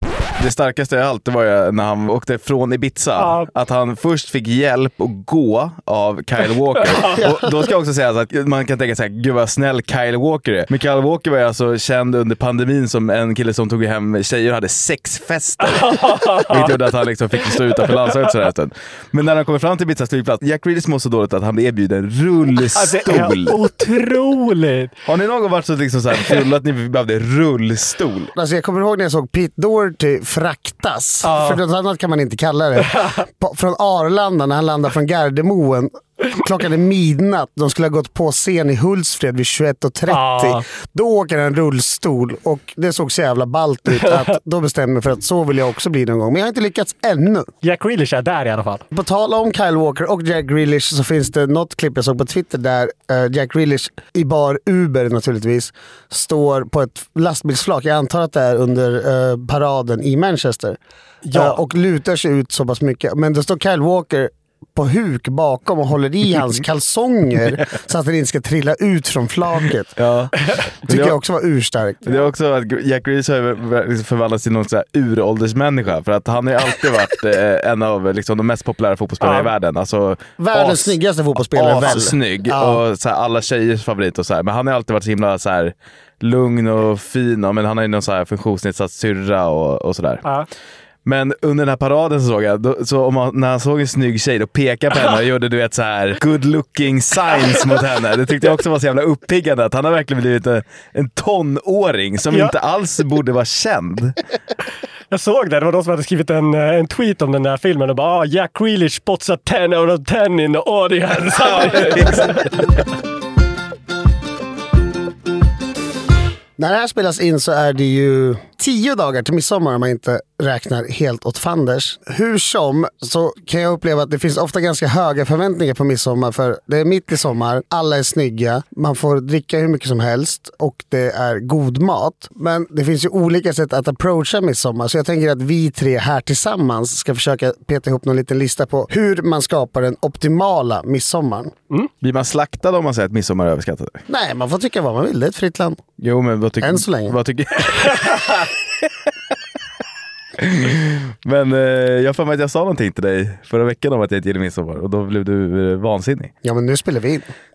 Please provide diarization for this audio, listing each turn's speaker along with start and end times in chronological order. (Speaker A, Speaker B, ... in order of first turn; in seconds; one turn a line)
Speaker A: 0.4-23.6
Speaker B: 3.2-3.5
Speaker B: 6.9-7.2
Speaker B: 15.7-16.7
Speaker B: 22.8-24.9
Speaker A: 25.1-28.3
Speaker C: 28.3-47.5
Speaker B: 31.2-31.6
Speaker B: 40.1-40.6
Speaker B: 44.0-44.2
Speaker B: 47.6-48.8
Speaker C: 48.9-60.8
Speaker B: 61.2-61.6
Speaker C: 61.3-69.9
Speaker A: 70.0-71.2
Speaker C: 70.9-72.2
Speaker A: 72.0-81.0
Speaker B: 79.2-79.5
Speaker C: 80.4-82.8
Speaker A: 81.5-90.2
Speaker A: 91.0-104.2
Speaker B: 105.1-112.5
Speaker A: 111.4-112.5
Speaker C: 116.6-141.5
Speaker A: 142.0-144.0
Speaker C: 144.1-145.8
Speaker A: 146.0-148.2
Speaker C: 146.6-147.2
Speaker A: 150.4-156.3
Speaker C: 156.4-157.3